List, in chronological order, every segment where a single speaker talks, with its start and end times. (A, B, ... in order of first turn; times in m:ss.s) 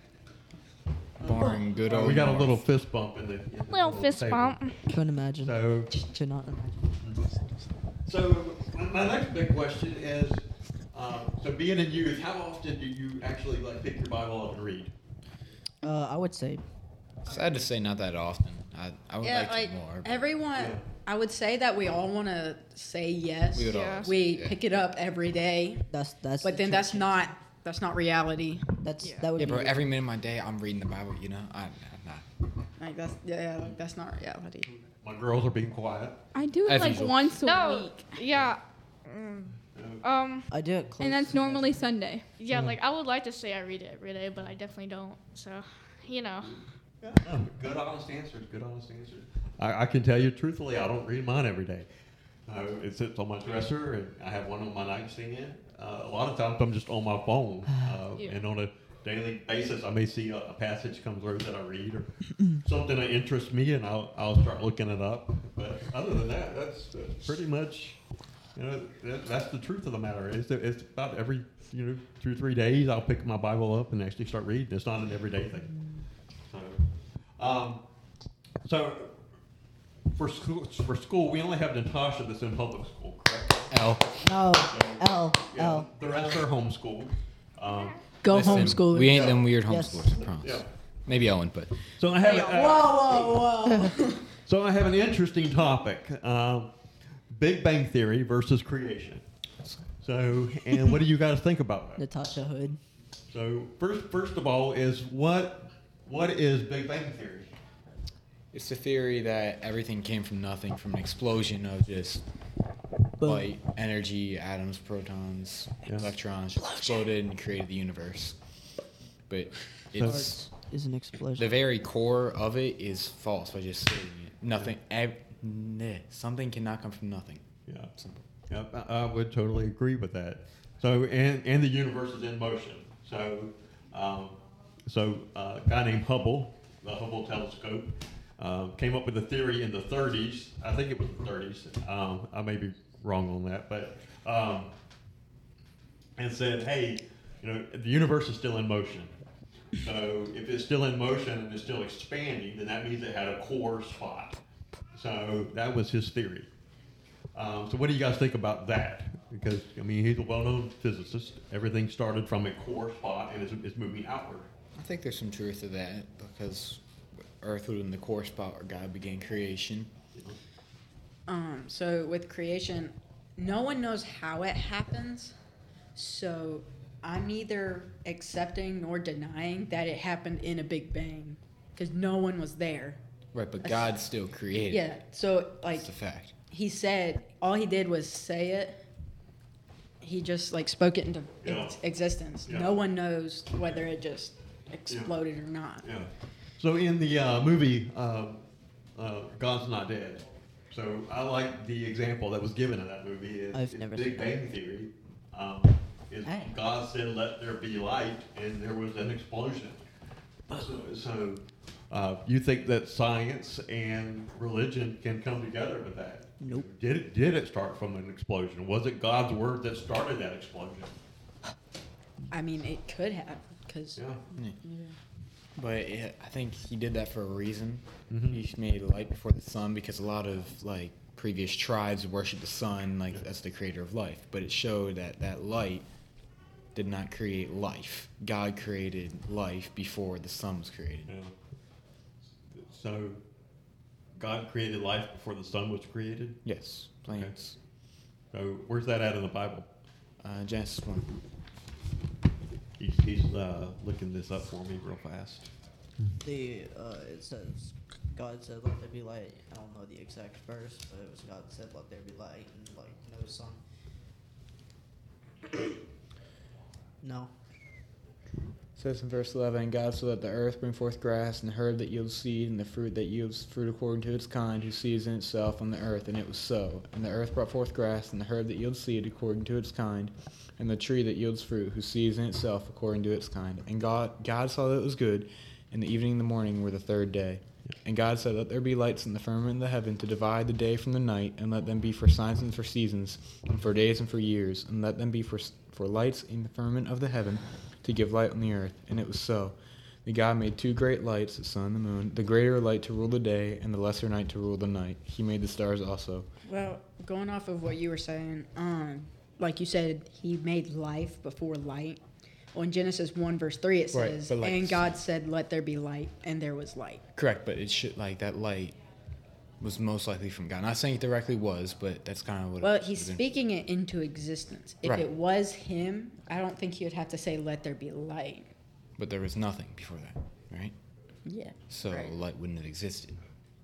0:01.2-0:02.6 A
0:01.8-0:04.6 B
0:03.7-0:04.8 C
0:04.9-0:06.9 D
0:05.4-0:05.9 B
0:08.0-0:14.9 B
0:15.8-0:16.6 D
0:17.2-0:20.2 A
0:19.2-0:25.8 E
0:20.6-0:20.8 B
0:23.5-0:24.6 A
0:23.7-0:24.1 C
0:25.9-0:27.3 D
0:26.4-0:28.7 E
0:28.8-0:29.8 D
0:29.0-0:29.3 C
0:29.4-0:32.2 A
0:32.8-0:34.7 E
0:35.0-0:36.2 B
0:36.3-0:38.1 F
0:36.6-0:37.3 A
0:37.4-0:40.5 C
0:39.7-0:40.0 B
0:40.5-0:41.8 D
0:41.0-0:42.2 F
0:42.4-0:46.6 C
0:47.0-0:51.9 B
0:52.5-1:08.0 B
0:58.2-0:58.4 C
1:08.5-1:15.8 B
1:16.5-1:16.8 B
1:17.4-1:17.8 B
1:18.6-1:19.1 B
1:20.1-1:23.7 B
1:23.7-1:24.0 A
1:24.2-1:25.9 D
1:24.6-1:29.4 B
1:28.2-1:29.4 E
1:28.2-1:31.8 A
1:29.7-1:30.2 D
1:30.2-1:30.7 B
1:32.0-1:33.4 B
1:32.2-1:34.2 E
1:33.6-1:34.0 D
1:34.4-1:36.7 B
1:37.3-1:39.2 B
1:40.0-1:42.0 B
1:42.0-1:42.8 D
1:43.3-1:47.5 B
1:48.5-1:52.2 A
1:53.2-1:53.5 D
1:53.2-1:58.4 A
1:55.8-1:56.1 B
1:59.3-2:00.4 A
1:59.9-2:00.3 B
2:00.0-2:01.6 D
2:01.4-2:08.2 A
2:08.5-2:24.7 B
2:26.2-2:29.1 B
2:29.8-2:34.4 B
2:34.9-2:36.5 B
2:37.3-2:44.5 B
2:44.8-2:46.8 A
2:47.4-2:49.9 A
2:51.3-2:55.3 E
2:55.9-3:03.0 E
3:03.3-3:04.9 A
3:03.6-3:03.9 E
3:04.7-3:05.9 E
3:05.7-3:06.3 A
3:06.5-3:08.8 E
3:10.0-3:15.9 E
3:11.4-3:11.8 B
3:12.4-3:12.8 B
3:15.8-3:18.4 B
3:19.0-3:29.8 B
3:23.5-3:24.3 D
3:26.2-3:26.5 D
3:30.5-3:40.9 B
3:36.4-3:36.7 D
3:42.3-3:44.0 E
3:44.0-3:44.2 B
3:44.6-3:44.9 E
3:45.6-3:55.8 A
3:48.1-3:48.4 B
3:56.7-4:01.1 A
4:01.1-4:01.3 B
4:02.5-4:03.2 B
4:04.2-4:06.4 B
4:06.4-4:07.6 A
4:08.3-4:09.7 B
4:10.2-4:11.2 A
4:12.8-4:15.5 B
4:16.2-4:23.6 D
4:27.0-4:27.3 D
4:28.8-5:06.3 A
5:06.4-5:12.0 E
5:12.5-5:17.0 E
5:13.9-5:15.0 A
5:17.2-5:18.8 A
5:19.6-5:23.3 A
5:22.6-5:28.5 E
5:24.8-5:25.1 A
5:29.0-5:30.7 A
5:31.2-5:32.1 E
5:31.7-5:33.2 A